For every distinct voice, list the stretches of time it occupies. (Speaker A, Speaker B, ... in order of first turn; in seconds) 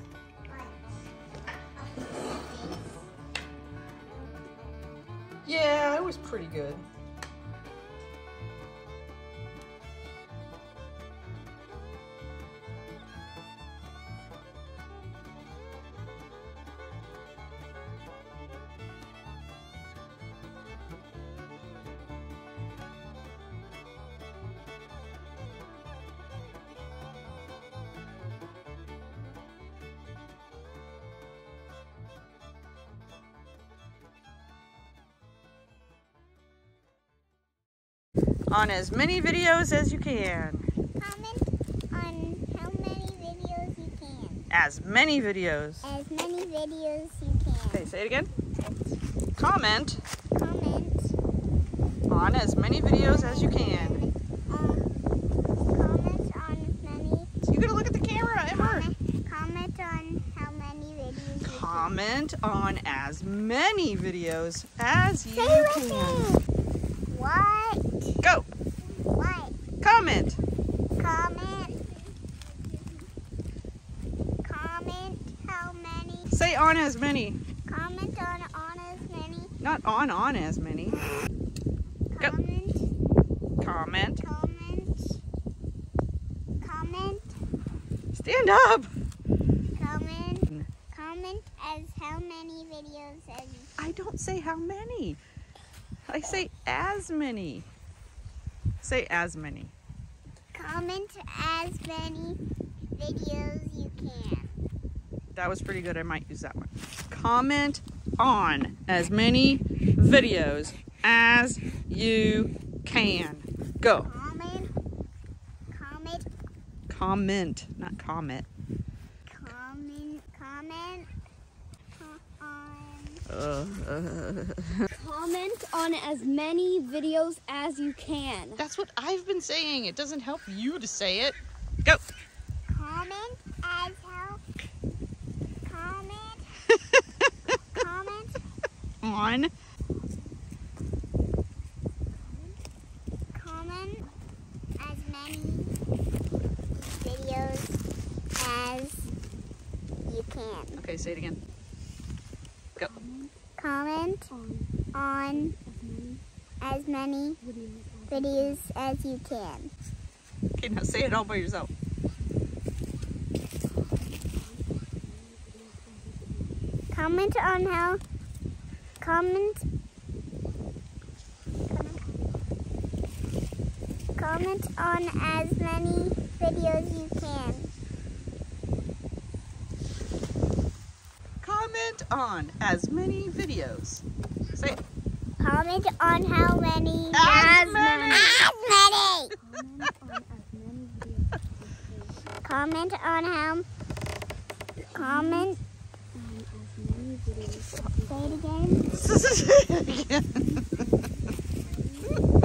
Speaker A: 0.5-0.8, 1.9-3.0, 41.0-44.5, 45.8-47.8, 50.4-51.1, 53.0-54.9, 55.7-57.3, 58.5-62.0, 65.4-66.4, 67.1-67.8, 69.0-69.6, 71.0-72.0, 74.5-76.3, 77.7-79.5, 82.1-82.9, 84.2-85.2, 86.6-87.4, 89.8-93.7, 100.5-102.4, 102.9-104.5, 114.0-114.7, 115.7-116.3, 119.3-121.1, 122.0-123.2, 132.7-134.4, 135.6-136.6, 137.7-138.4, 143.3-144.1, 144.8-145.7, 146.8-147.8, 148.4-149.1, 150.1-150.8, 153.6-154.3, 154.9-155.5, 156.6-157.4, 158.1-159.7, 166.9-168.0, 169.0-169.7, 171.7-172.0, 174.2-177.7, 185.4-189.3, 192.4-193.7, 194.9-195.6, 198.1-199.0
Speaker B: 5.5-6.8, 38.5-40.7, 44.5-45.9, 47.7-48.3, 49.4-50.0, 52.1-54.1, 57.5-58.9, 61.4-66.3, 68.2-68.5, 69.8-70.4, 76.3-77.4, 79.6-81.0, 83.6-84.2, 88.1-88.9, 93.8-95.2, 96.1-97.7, 98.8-99.7, 105.3-114.1, 116.9-118.5, 123.3-124.9, 128.6-132.0, 136.7-137.6, 139.0-139.5, 150.8-151.4, 160.6-161.7, 181.4-184.8, 187.1-188.5, 198.9-200.6
Speaker C: 124.9-128.6, 152.9-153.3, 154.3-154.7, 155.3-156.2, 157.4-158.7, 165.7-166.1, 189.4-192.1, 194.9-195.5, 196.2-198.4